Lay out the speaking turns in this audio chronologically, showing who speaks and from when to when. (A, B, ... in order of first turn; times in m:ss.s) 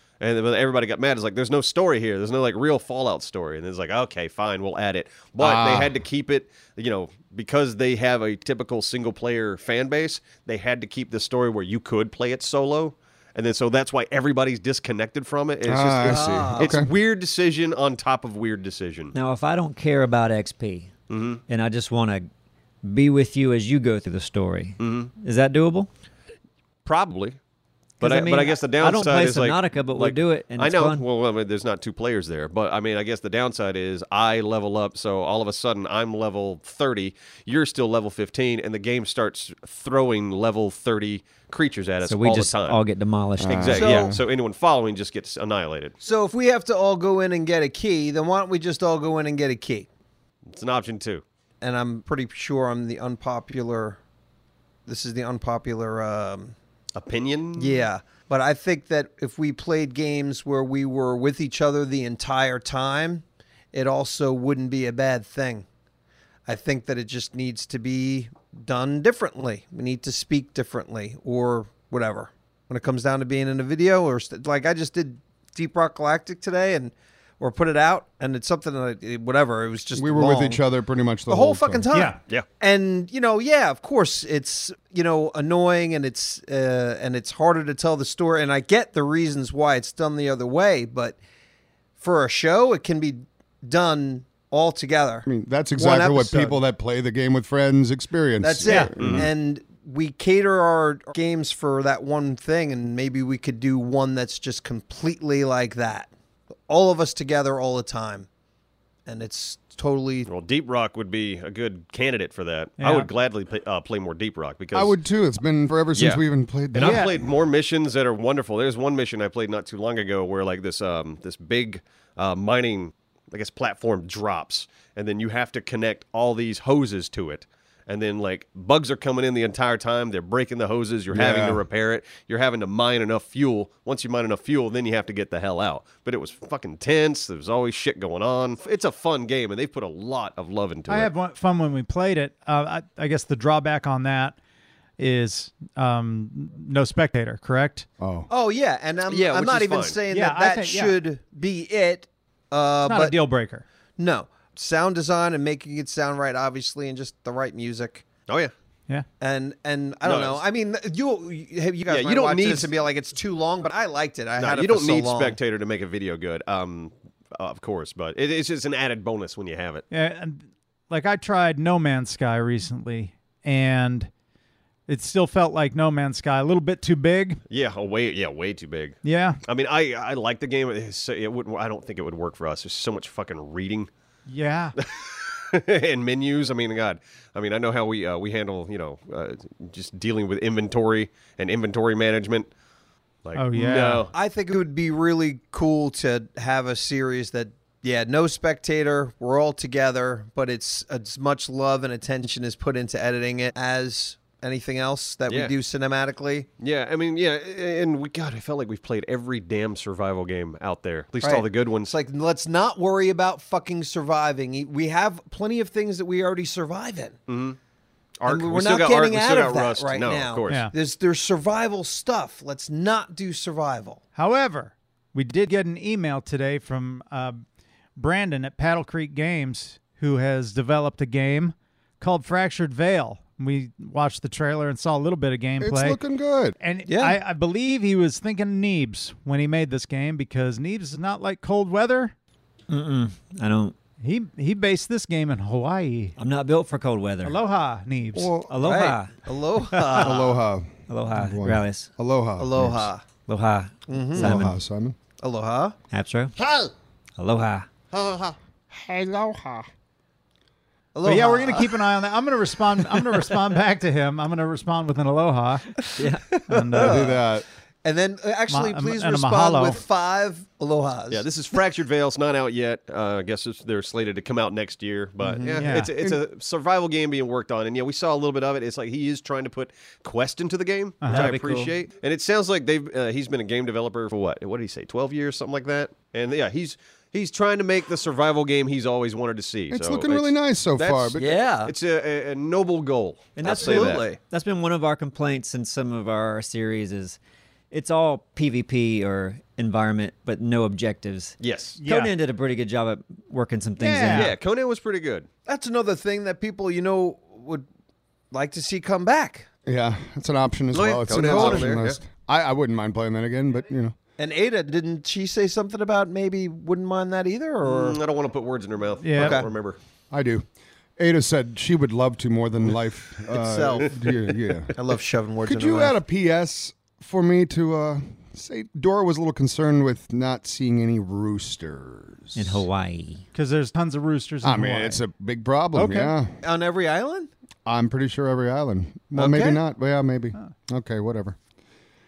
0:00.2-0:19.1 A
0:05.4-0:05.9 B
0:15.7-0:16.9 B
0:16.0-0:16.7 C
0:19.1-0:20.9 D
0:21.1-0:21.4 A
0:21.5-0:22.3 D
0:22.8-0:25.9 D
0:24.8-0:25.1 A
0:26.8-0:27.4 A
0:28.0-0:42.8 A
0:28.0-0:31.0 D
0:42.0-0:43.8 D
0:43.4-0:44.2 B
0:43.4-0:46.0 A
0:43.7-0:44.1 C
0:46.0-0:49.9 C
0:50.5-0:51.2 A
0:51.6-0:54.0 C
0:54.8-0:56.5 C
0:57.0-0:57.8 A
0:57.6-1:05.6 C
1:06.4-1:20.6 C
1:20.0-1:21.8 B
1:21.3-1:31.2 C
1:21.9-1:22.2 E
1:32.0-1:36.6 C
1:35.2-1:39.3 B
1:38.4-1:46.1 C
1:38.6-1:38.9 E
1:39.0-1:39.3 A
1:46.7-1:48.3 C
1:49.0-1:50.3 C
1:50.3-1:55.0 A
1:52.8-1:53.1 E
1:54.7-1:57.2 B
1:55.9-1:56.2 A
1:56.7-2:21.1 A
1:56.8-1:57.1 E
2:11.1-2:11.6 B
2:20.9-2:24.4 E
2:25.0-2:27.8 E
2:28.0-2:28.3 B
2:28.3-2:33.2 C
2:29.1-2:30.0 A
2:30.1-2:31.0 E
2:32.8-2:33.6 E
2:34.0-2:38.0 C
2:38.3-2:38.5 A
2:39.2-2:45.4 C
2:40.0-2:40.4 A
2:41.9-2:42.7 A
2:44.4-2:49.8 A
2:49.9-2:54.1 E
2:54.9-2:57.4 E
2:57.5-3:03.9 A
2:59.0-2:59.4 E
3:04.3-3:04.8 E
3:04.8-3:12.5 A
3:13.2-3:14.1 A
3:13.3-3:14.1 E
3:14.1-3:26.5 C
3:26.6-3:31.9 A
3:31.2-3:37.2 C
3:37.3-3:37.6 A
3:38.2-3:40.7 A
3:38.2-3:44.0 C
3:40.5-3:40.7 E
3:44.2-3:47.4 E
3:48.0-3:56.0 E
3:55.6-3:56.6 B
3:56.6-4:02.1 E
3:56.8-3:57.2 C
4:02.7-4:03.8 D
4:04.0-4:06.2 E
4:06.2-4:07.4 D
4:07.2-4:08.4 E
4:08.1-4:08.5 B
4:08.4-4:09.1 D
4:08.6-4:10.4 C
4:09.7-4:10.1 E
4:10.0-4:12.9 B
4:10.9-4:11.9 D
4:12.4-4:13.0 C
4:13.3-4:14.6 D
4:13.9-4:14.4 C
4:14.2-4:15.0 B
4:15.2-4:15.7 C
4:15.9-4:16.3 D
4:17.2-4:17.7 D
4:18.7-4:19.7 B
4:20.9-4:21.8 C
4:21.0-4:27.0 E
4:26.0-4:26.4 D
4:26.0-4:27.3 C
4:26.7-4:27.4 B
4:27.8-4:31.2 C
4:28.5-4:29.8 E
4:31.1-4:54.0 A
4:35.2-4:35.6 C
4:35.6-4:35.9 E
4:41.0-4:41.3 E
4:41.1-4:41.7 D
4:49.7-4:51.3 B
4:51.2-4:51.7 C
4:53.4-4:57.2 D
4:53.4-4:54.2 C
4:57.7-5:04.3 D
5:01.4-5:01.8 A
5:01.8-5:02.1 E
5:03.8-5:04.3 E
5:04.1-5:05.3 A
5:05.4-5:07.6 C
5:08.3-5:09.5 C
5:09.6-5:13.9 B
5:10.7-5:12.0 A
5:11.1-5:11.8 C
5:14.2-5:18.0 C
5:17.6-5:19.8 A
5:19.0-5:19.4 E
5:19.1-5:19.5 C
5:20.1-5:20.4 B
5:21.0-5:24.8 B
5:23.3-5:24.1 C
5:24.7-5:26.0 C
5:25.4-5:32.6 B
5:32.4-5:33.2 D
5:33.3-5:35.0 E
5:34.4-5:36.4 B
5:35.7-5:36.1 E
5:36.4-5:37.3 C
5:37.6-5:41.4 B
5:39.1-5:39.6 C